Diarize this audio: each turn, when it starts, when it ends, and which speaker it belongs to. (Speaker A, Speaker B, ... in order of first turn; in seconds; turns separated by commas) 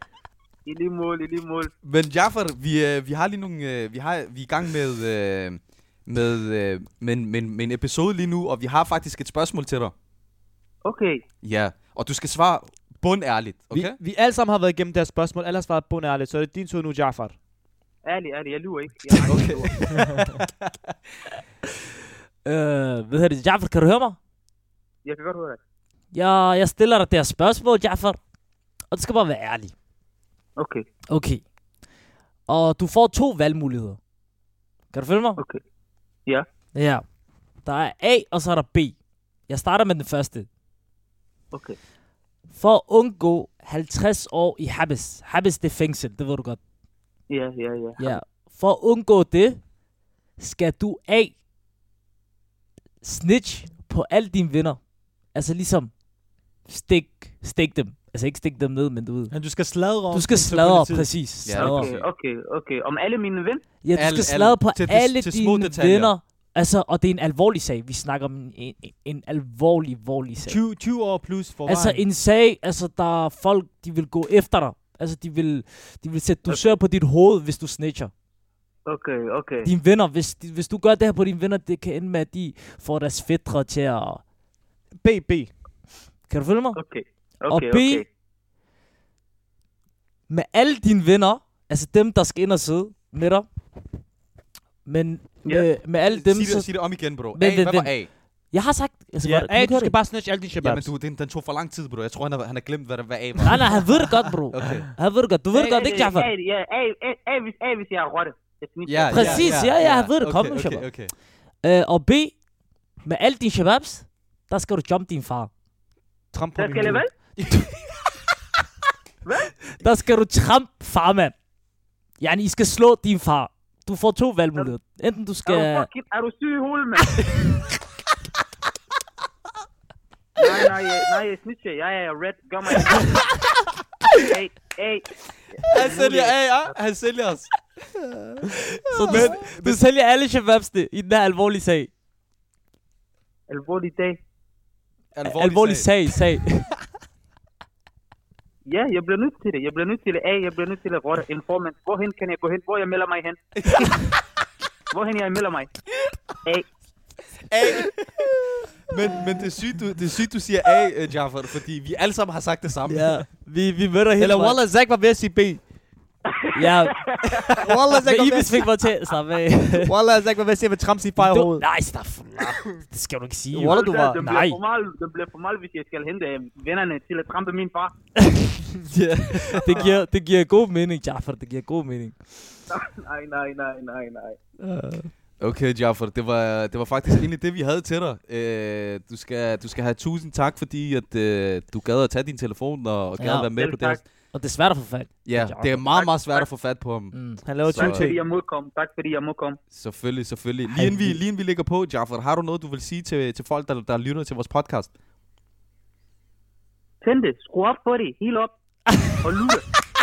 Speaker A: 0.7-1.7, Speaker B: 1.8-9.9, Speaker A: 10.8-11.2, Speaker B: 11.4-14.0, Speaker C: 13.7-17.4, Speaker A: 18.1-19.8, Speaker B: 19.3-20.9, Speaker D: 22.4-24.2, Speaker A: 25.1-25.6, Speaker D: 26.1-28.2, Speaker D: 28.9-29.8, Speaker A: 30.6-30.8, Speaker D: 31.1-31.5, Speaker D: 32.5-34.0, Speaker D: 34.9-35.4, Speaker D: 36.8-37.0, Speaker D: 37.6-40.5, Speaker A: 41.5-41.8, Speaker D: 42.5-46.6, Speaker A: 47.3-48.2, Speaker D: 48.0-49.7, Speaker D: 50.4-51.4, Speaker D: 53.0-54.8, Speaker D: 55.3-55.9, Speaker D: 56.6-59.4, Speaker E: 59.3-61.1, Speaker D: 60.1-61.9, Speaker B: 61.5-62.1, Speaker A: 61.5-63.6, Speaker D: 63.8-70.6, Speaker B: 63.9-66.1, Speaker E: 70.4-72.0, Speaker D: 71.7-78.1, Speaker A: 76.5-76.7, Speaker A: 78.9-79.7, Speaker D: 79.6-84.2, Speaker C: 85.0-85.5, Speaker D: 86.3-86.8, Speaker A: 86.7-88.0, Speaker D: 87.5-88.0, Speaker D: 90.3-93.5, Speaker D: 94.8-100.0, Speaker B: 96.0-98.1, Speaker C: 99.2-100.9, Speaker B: 100.6-104.9, Speaker D: 103.5-106.3, Speaker A: 105.5-109.6, Speaker B: 108.9-111.1, Speaker D: 109.1-110.9, Speaker E: 109.2-109.5, Speaker D: 111.6-112.4, Speaker D: 113.0-115.5, Speaker C: 116.3-117.0, Speaker A: 116.6-117.1, Speaker B: 117.4-117.7, Speaker D: 117.5-117.8, Speaker A: 119.2-119.5, Speaker D: 119.8-121.4, Speaker D: 122.2-125.9, Speaker A: 125.5-127.3, Speaker A: 130.4-133.4, Speaker A: 134.1-136.7, Speaker B: 135.7-137.5, Speaker D: 138.9-141.9, Speaker B: 139.0-139.8, Speaker A: 143.5-144.2, Speaker B: 145.2-145.9, Speaker D: 145.2-146.7, Speaker A: 148.7-153.5, Speaker B: 153.6-153.9, Speaker A: 154.9-155.7, Speaker B: 157.5-158.0, Speaker B: 158.9-163.2, Speaker D: 162.9-164.6, Speaker C: 164.2-165.6, Speaker A: 166.3-167.7, Speaker D: 166.6-169.9, Speaker C: 167.6-168.7, Speaker C: 169.8-171.7, Speaker D: 171.2-174.6, Speaker C: 173.5-174.2, Speaker A: 173.7-177.9, Speaker B: 178.9-179.8, Speaker D: 179.5-182.3, Speaker A: 182.7-184.4, Speaker C: 184.6-185.1, Speaker B: 185.4-194.0, Speaker D: 193.2-193.5, Speaker A: 193.6-194.0, Speaker D: 194.3-195.9, Speaker B: 195.2-198.2, Speaker A: 195.9-196.5, Speaker D: 197.1-197.4, Speaker C: 197.4-198.2, Speaker A: 197.7-199.6, Speaker B: 199.7-204.9, Speaker C: 200.7-201.2, Speaker A: 207.0-208.5, Speaker A: 209.2-209.7